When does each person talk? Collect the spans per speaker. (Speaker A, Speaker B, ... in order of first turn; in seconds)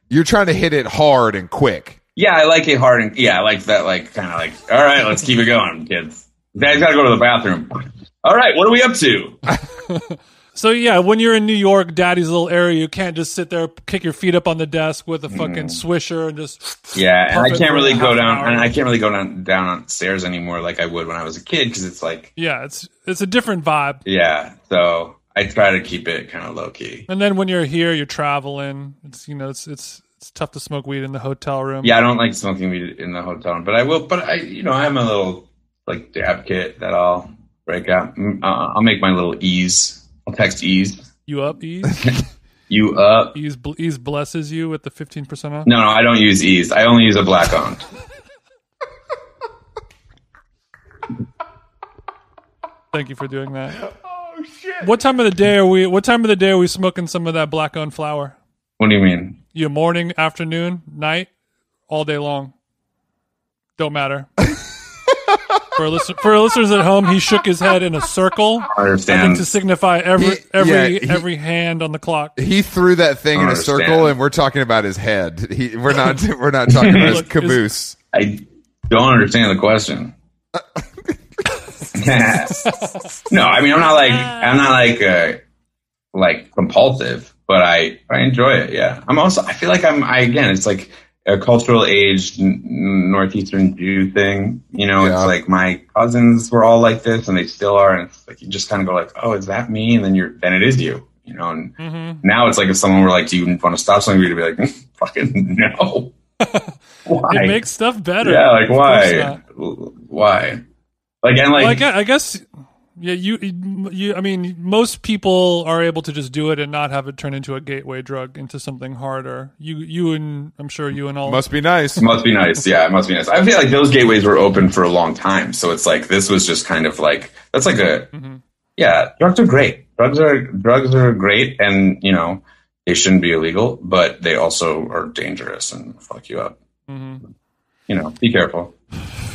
Speaker A: 0.1-2.0, 54.3-54.8, 70.2-71.3, 72.4-78.0, 95.0-95.3, 121.2-122.0
Speaker B: 2.1-9.4, 15.3-15.8, 16.9-22.3, 24.1-27.1, 31.8-41.1, 42.7-43.4, 45.6-47.8, 58.8-59.4, 68.7-69.5, 73.3-74.1, 76.7-77.2, 78.1-80.1, 81.9-82.7, 83.3-85.4, 86.1-106.1, 107.0-107.6, 108.2-110.6, 111.2-111.9, 122.0-128.1, 128.8-136.6, 137.9-138.7
Speaker C: 9.9-18.8, 22.4-24.0, 27.1-31.9, 41.3-42.1, 43.3-45.7, 52.9-53.9, 54.8-58.4, 59.5-61.3, 61.9-62.5, 63.8-64.5, 65.8-72.4, 76.8-77.6, 84.0-84.5, 101.8-102.2, 106.4-106.7, 107.3-109.4, 111.5-112.4, 113.0-121.4, 128.1-128.4, 136.9-137.2